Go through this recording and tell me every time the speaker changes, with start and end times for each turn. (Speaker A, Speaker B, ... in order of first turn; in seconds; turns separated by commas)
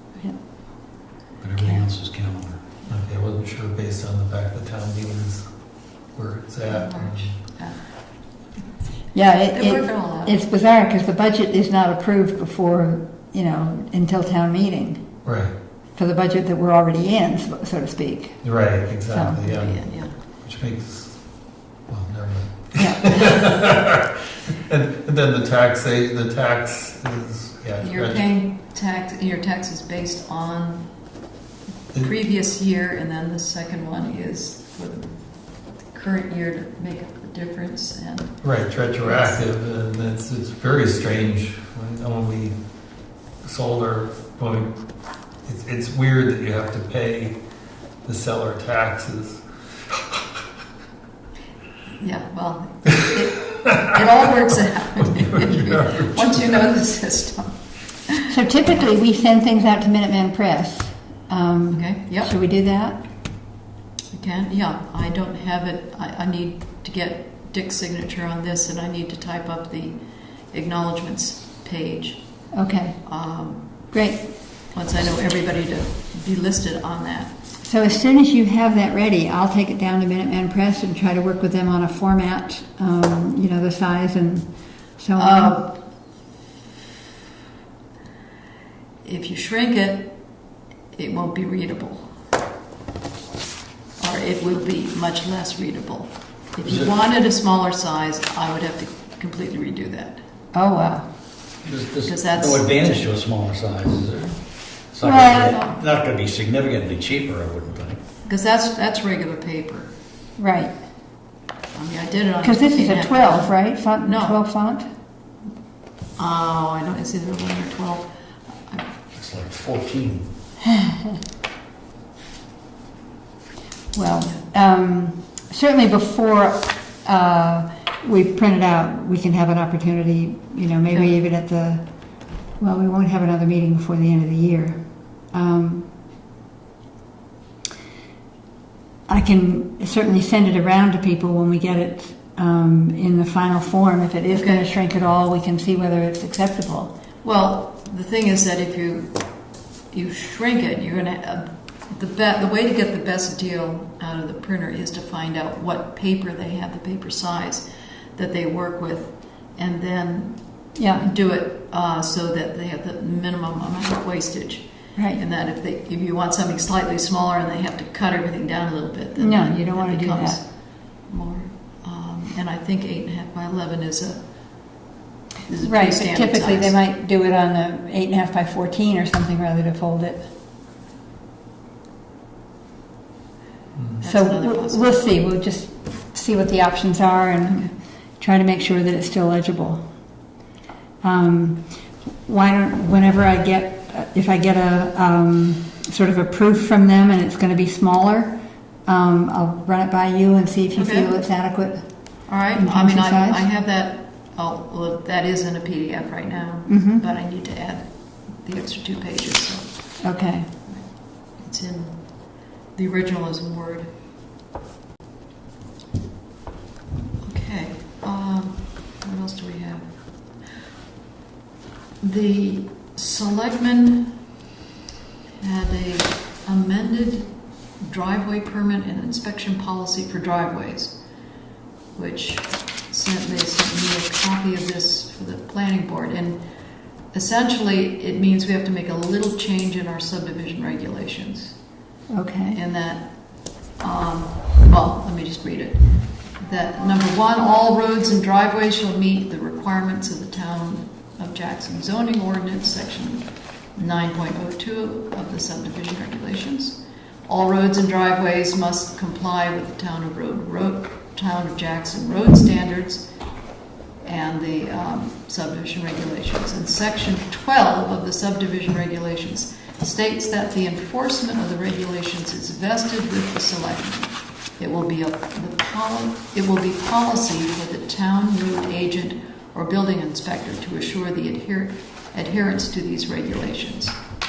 Speaker A: 1.4-2.6, Speaker B: 2.9-5.5, Speaker B: 6.1-7.3, Speaker C: 6.7-7.8, Speaker D: 9.1-15.1, Speaker C: 9.5-10.4, Speaker B: 15.2-15.5, Speaker D: 15.9-18.4, Speaker B: 18.4-19.8, Speaker D: 19.1-19.4, Speaker C: 19.4-20.1, Speaker B: 20.4-21.2, Speaker B: 21.9-24.0, Speaker D: 22.8-23.4, Speaker B: 24.6-28.2, Speaker C: 27.8-30.9, Speaker C: 31.9-35.2, Speaker C: 35.8-38.4, Speaker B: 38.4-42.6, Speaker C: 39.0-39.4, Speaker B: 43.4-44.7, Speaker B: 45.4-47.4, Speaker B: 48.0-49.4, Speaker C: 52.0-58.9, Speaker B: 55.1-56.6, Speaker D: 58.3-63.0, Speaker C: 61.7-62.3, Speaker C: 64.1-73.8, Speaker D: 72.5-73.0, Speaker D: 73.9-74.3, Speaker C: 74.7-77.3, Speaker D: 77.6-85.7, Speaker C: 85.2-85.8, Speaker C: 89.0-90.3, Speaker C: 90.9-92.1, Speaker C: 94.0-100.2, Speaker A: 96.6-96.9, Speaker D: 100.5-101.0, Speaker A: 101.6-104.3, Speaker C: 102.0-103.1, Speaker A: 104.9-108.0, Speaker D: 105.0-105.7, Speaker C: 108.2-109.9, Speaker D: 110.4-110.7, Speaker C: 111.7-114.4, Speaker D: 112.4-114.9, Speaker C: 116.2-118.9, Speaker A: 119.1-120.3, Speaker D: 123.9-131.8, Speaker D: 132.6-134.8, Speaker D: 135.3-135.9, Speaker D: 139.1-146.9, Speaker C: 144.3-144.7, Speaker C: 147.2-149.3, Speaker C: 149.9-174.8, Speaker D: 160.7-161.1, Speaker D: 164.9-165.2, Speaker D: 169.2-170.4, Speaker C: 175.4-176.8, Speaker D: 175.6-180.3, Speaker C: 184.0-185.1, Speaker D: 184.0-189.8, Speaker D: 191.0-191.7, Speaker D: 192.2-203.4, Speaker C: 200.7-201.1, Speaker C: 202.3-209.9, Speaker D: 206.7-207.0, Speaker D: 210.0-210.5, Speaker C: 210.6-213.9, Speaker C: 217.2-219.9, Speaker C: 222.0-224.2, Speaker C: 225.4-231.0, Speaker C: 231.9-236.4, Speaker C: 237.1-241.6, Speaker D: 242.1-242.6, Speaker C: 242.5-245.8, Speaker C: 246.4-263.1, Speaker C: 264.0-284.1